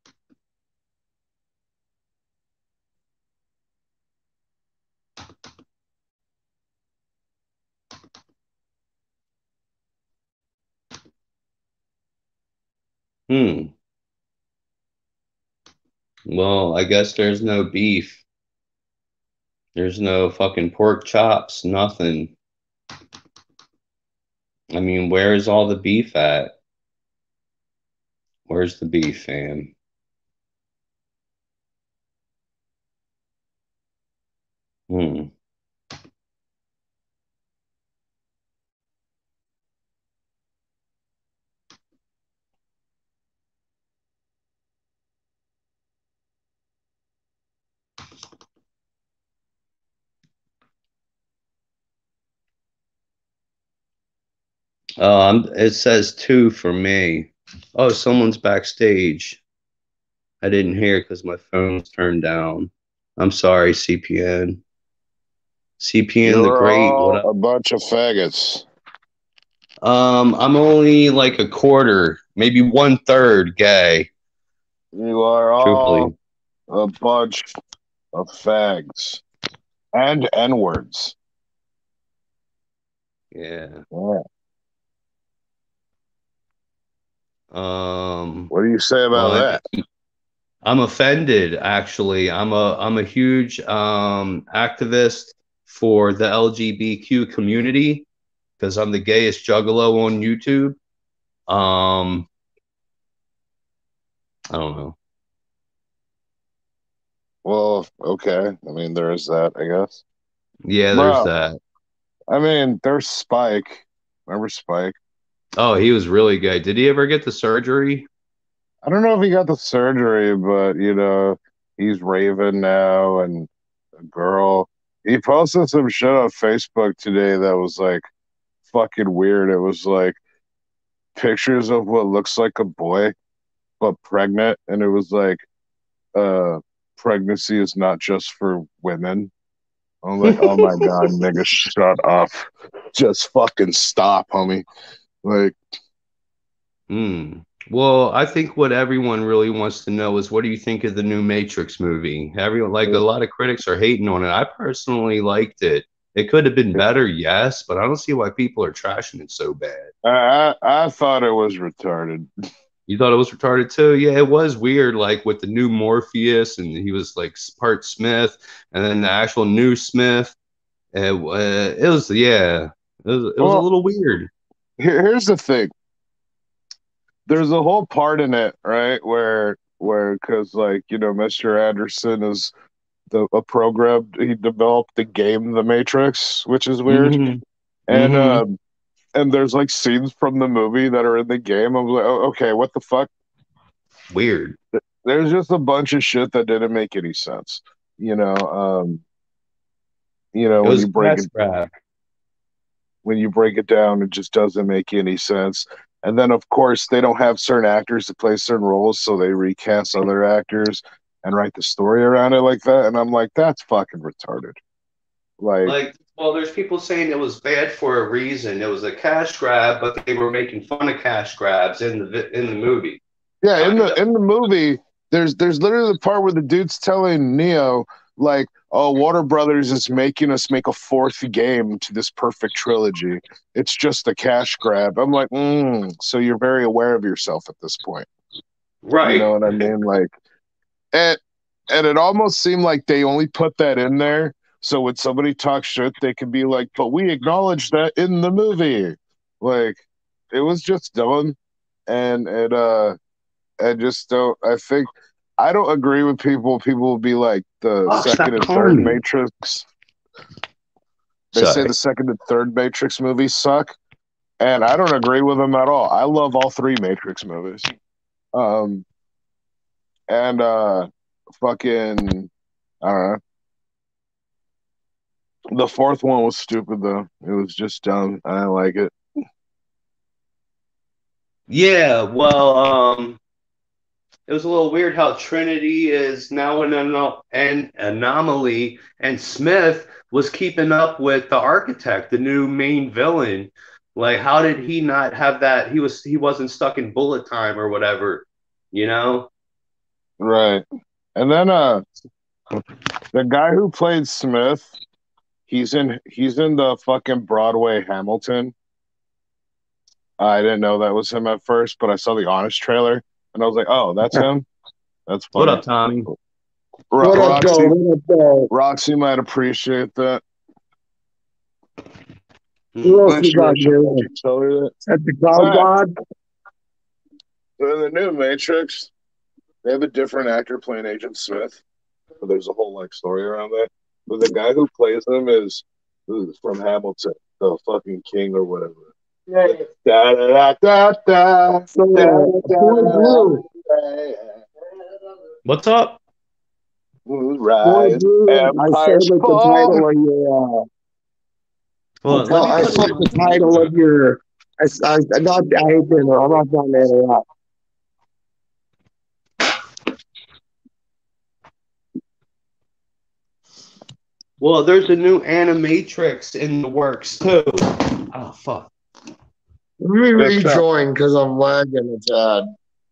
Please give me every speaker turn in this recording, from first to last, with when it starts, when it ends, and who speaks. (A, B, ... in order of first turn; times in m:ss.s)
0:13.3-0:13.7 A
0:16.3-0:18.2 A
0:19.7-0:22.3 A
0:24.7-0:26.6 A
0:28.5-0:29.7 A
0:34.9-0:35.3 A
0:55.0-0:59.4 A
1:00.4-1:04.6 A
1:05.8-1:07.2 A
1:06.2-1:08.6 B
1:09.8-1:14.1 A
1:14.9-1:16.1 B
1:15.6-1:16.1 A
1:16.7-1:17.5 B
1:18.1-1:19.2 B
1:19.9-1:21.2 B
1:23.3-1:23.8 A
1:23.9-1:24.2 B
1:27.5-1:28.5 A
1:28.5-1:29.6 B
1:29.1-1:29.6 A
1:30.6-1:38.1 A
1:38.6-1:40.8 A
1:41.5-1:42.3 A
1:44.5-1:45.0 A
1:47.4-1:50.0 B
1:50.6-1:51.6 A
1:50.9-1:51.3 B
1:52.3-1:55.0 B
1:55.6-1:58.1 A
1:58.8-2:08.0 B
2:08.7-2:10.2 B
2:11.2-2:13.1 B
2:13.8-2:15.4 B
2:16.1-2:19.3 B
2:20.0-2:24.6 B
2:20.3-2:20.9 A
2:25.2-2:25.6 B
2:26.9-2:39.9 A
2:40.0-2:42.3 B
2:42.9-2:50.4 A
2:50.9-2:54.3 A
2:53.4-2:53.7 B
2:54.8-2:55.7 B
2:57.3-3:02.5 B
3:03.1-3:07.2 B
3:06.8-3:08.4 A
3:07.9-3:08.6 B
3:09.1-3:13.1 B
3:14.1-3:14.6 A
3:15.0-3:19.0 B
3:20.3-3:21.3 B
3:20.6-3:21.8 A
3:23.0-3:34.6 B
3:35.4-3:35.7 B
3:35.6-3:43.0 A
3:43.4-3:58.1 B
3:43.6-3:44.0 A
3:58.8-3:59.6 A
3:59.0-4:00.1 B
4:00.9-4:11.4 B
4:11.9-4:13.0 B
4:13.6-4:19.7 B
4:17.9-4:19.0 A
4:21.3-4:23.8 B
4:21.3-4:21.7 A
4:24.4-4:27.7 B
4:28.3-4:28.8 B
4:30.1-4:32.3 B
4:32.8-4:33.2 B
4:35.5-4:38.9 B
4:41.5-4:43.2 A
4:44.3-4:59.3 A
5:00.2-5:00.6 B
5:01.2-5:01.8 B
5:03.1-5:04.7 B
5:05.5-5:08.5 B
5:10.2-5:14.5 B
5:15.1-5:16.2 B
5:15.4-5:16.1 A
5:16.9-5:17.8 B
5:17.0-5:18.5 C
5:18.5-5:20.2 B
5:22.7-5:23.1 A
5:22.8-5:24.0 C
5:23.0-5:24.7 B
5:24.9-5:25.9 C
5:25.3-5:25.7 B
5:27.6-5:28.9 B
5:29.6-5:31.6 B
5:32.2-5:44.4 B
5:41.7-5:43.4 C
5:45.4-5:46.0 A
5:47.0-5:49.8 B
5:47.6-5:50.6 C
5:52.0-5:53.7 A
5:52.1-5:57.2 C
6:04.4-6:08.7 A
6:09.8-6:12.5 C
6:10.2-6:10.6 B